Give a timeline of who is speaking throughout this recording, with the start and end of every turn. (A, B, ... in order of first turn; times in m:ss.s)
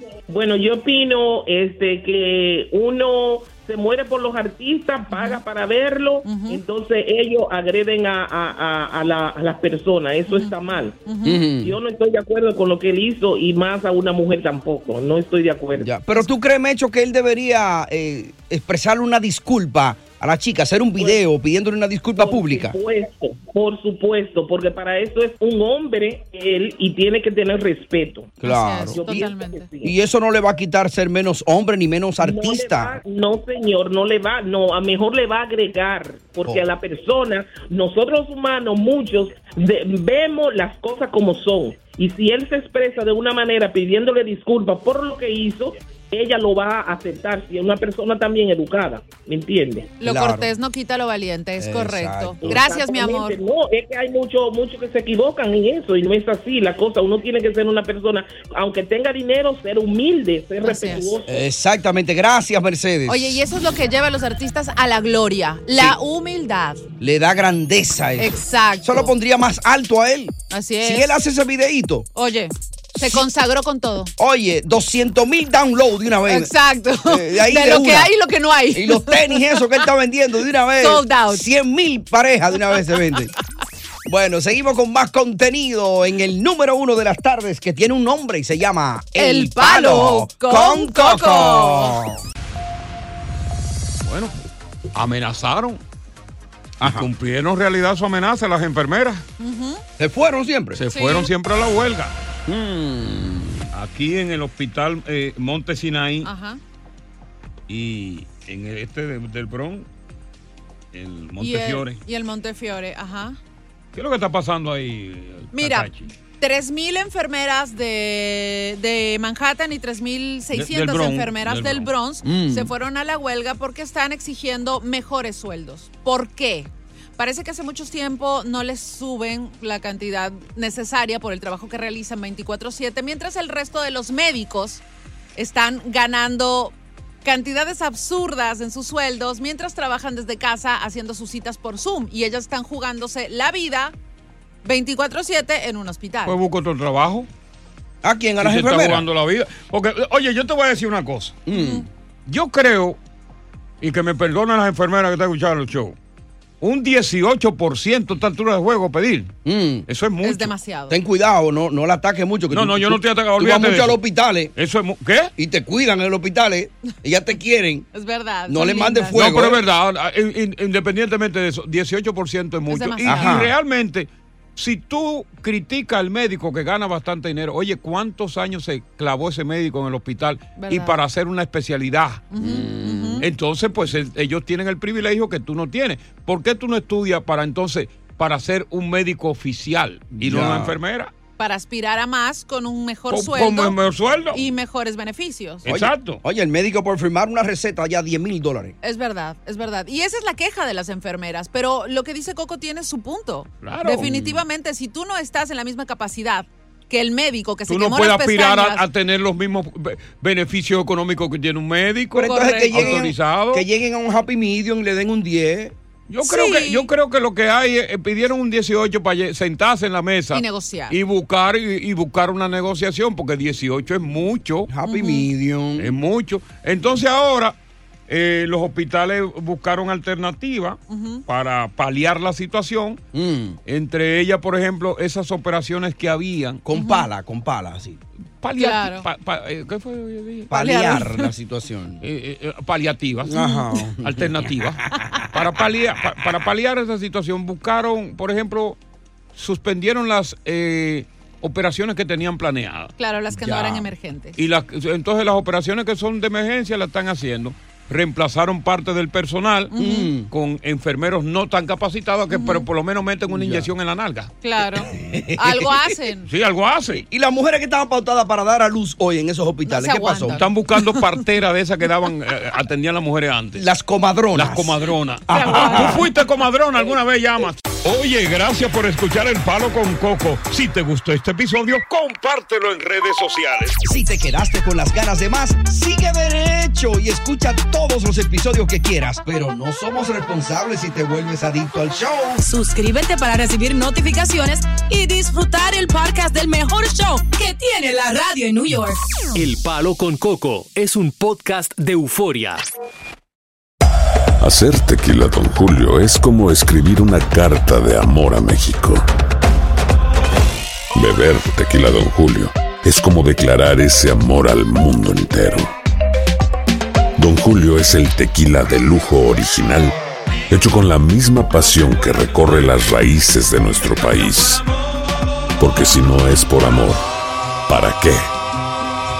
0:00.3-0:10.9 A
0:05.1-0:05.4 B
0:06.2-0:06.6 B
0:10.3-0:11.4 B
0:11.2-0:11.8 C
0:11.6-0:15.9 A
0:15.8-0:22.8 C
0:21.0-0:21.2 A
0:22.2-0:28.4 A
0:28.4-0:29.0 C
0:28.4-0:29.7 B
0:28.9-0:29.9 A
0:29.8-0:33.0 C
0:32.2-0:49.9 A
0:50.0-0:53.4 B
0:50.0-0:50.5 C
0:51.6-0:52.6 C
0:52.4-1:01.4 A
1:00.6-1:01.1 B
1:01.3-1:03.4 C
1:03.1-1:06.8 B
1:07.0-1:12.1 C
1:08.2-1:09.1 B
1:10.5-1:11.1 B
1:12.1-1:14.1 B
1:14.2-1:16.5 C
1:16.3-1:19.8 B
1:17.0-1:18.1 C
1:18.7-1:23.3 C
1:20.8-1:21.5 B
1:24.0-1:32.2 C
1:29.2-1:32.0 B
1:34.0-1:34.3 D
1:34.9-1:35.8 D
1:36.8-1:37.1 C
1:36.8-1:39.2 D
1:39.4-1:39.8 B
1:40.0-1:40.8 C
1:40.8-1:42.1 D
1:40.9-1:41.3 B
1:42.5-1:43.7 C
1:43.7-1:46.3 D
1:46.2-1:46.6 B
1:47.7-1:49.9 D
1:50.9-1:52.0 D
1:51.4-1:53.4 B
1:53.9-1:56.1 D
1:55.5-2:14.8 B
2:00.5-2:01.9 D
2:02.2-2:02.7 C
2:15.4-2:23.9 B
2:24.6-2:26.4 B
2:26.2-2:27.3 D
2:28.0-2:29.0 C
2:28.4-2:31.4 D
2:31.5-2:31.9 C
2:31.5-2:31.8 B
2:32.3-2:33.0 D
2:33.8-2:35.9 D
2:36.6-2:39.3 D
2:39.4-2:39.8 C
2:39.9-2:40.5 D
2:40.2-2:41.0 B
2:40.9-2:44.5 C
2:42.5-2:44.0 D
2:44.5-2:45.3 D
2:45.4-2:47.8 C
2:47.9-2:49.3 B
2:48.5-2:49.6 C
2:49.1-3:02.3 D
2:52.7-2:53.4 B
2:53.0-2:53.5 C
3:00.6-3:01.0 B
3:02.3-3:03.2 B
3:02.4-3:03.2 C
3:03.2-3:11.1 D
3:10.2-3:10.7 C
3:11.4-3:13.8 B
3:13.1-3:14.4 D
3:14.3-3:15.7 B
3:15.7-3:16.2 D
3:15.7-3:18.7 C
3:18.8-3:28.8 B
3:23.6-3:24.1 D
3:24.0-3:24.4 C
3:27.7-3:33.6 D
3:32.1-3:35.7 C
3:32.2-3:33.0 B
3:36.1-3:44.7 D
3:36.2-3:36.9 B
3:40.3-3:41.0 B
3:44.7-3:45.9 C
3:44.8-3:45.3 B
3:45.8-3:47.6 D
3:48.1-3:53.0 D
3:50.9-3:51.2 B
3:53.1-3:53.6 C
3:53.7-3:56.6 D
3:56.6-3:58.0 C
3:56.8-3:57.1 B
3:58.4-4:00.5 D
3:58.6-3:59.1 B
4:00.5-4:02.0 C
4:00.5-4:01.3 B
4:02.0-4:03.4 D
4:03.2-4:04.8 C
4:03.4-4:03.6 B
4:04.0-4:08.8 D
4:09.3-4:12.9 D
4:13.0-4:14.4 B
4:13.3-4:13.9 C
4:14.4-4:19.7 D
4:19.7-4:20.1 B
4:19.7-4:20.3 C
4:20.3-4:24.3 D
4:22.3-4:22.6 B
4:23.3-4:23.7 C
4:24.4-4:26.3 B
4:24.9-4:25.7 C
4:26.3-4:27.0 D
4:27.1-4:30.4 C
4:29.7-4:30.4 B
4:30.3-4:33.6 D
4:33.6-4:36.0 C
4:34.3-4:43.8 D
4:35.3-4:36.0 B
4:43.9-4:52.4 C
4:52.4-4:59.0 E
4:59.3-5:02.6 F
5:06.9-5:08.3 G
5:12.3-5:15.7 G
5:17.2-5:19.9 G
5:20.5-5:24.6 G
5:25.6-5:27.0 G
5:27.7-5:28.2 G